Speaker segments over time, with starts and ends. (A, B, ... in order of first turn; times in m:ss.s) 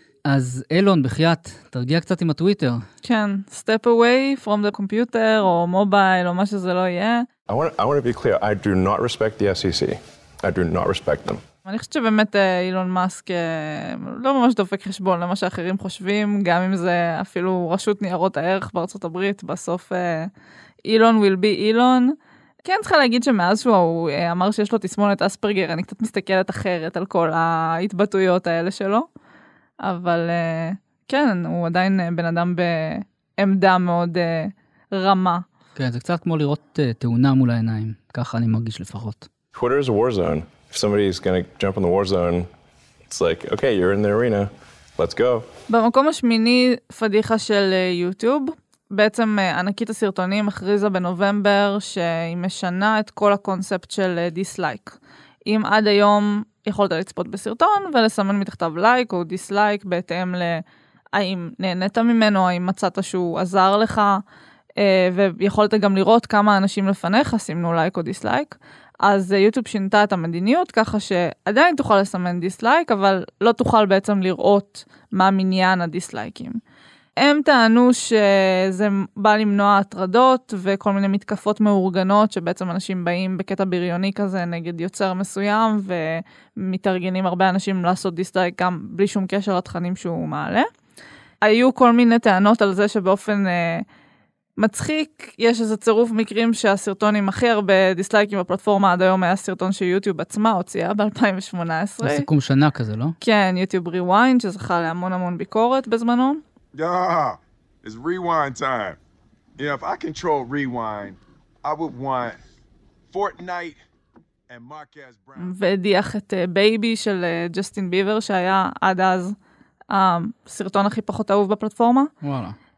0:00.2-0:02.8 A
0:03.0-0:07.3 B
0:07.5-0:11.4 C
0:11.6-0:20.3 B
0:20.9-0:29.1 B
0:29.8-0:35.4 B
0:35.8-0:39.3 A
0:39.5-0:42.5 C
0:43.1-0:45.5 C
0:45.7-1:00.6 B
1:01.2-1:04.2 B
1:04.8-1:16.6 B
1:17.2-1:30.7 B
1:31.4-1:33.9 B
1:34.6-1:42.3 B
1:42.0-1:43.2 A
1:43.2-1:46.4 B
1:46.8-1:49.0 D
1:49.6-1:52.4 D
1:53.1-1:53.8 D
1:54.5-1:55.5 D
1:55.4-1:59.4 B
1:59.9-2:02.1 B
2:02.2-2:02.6 A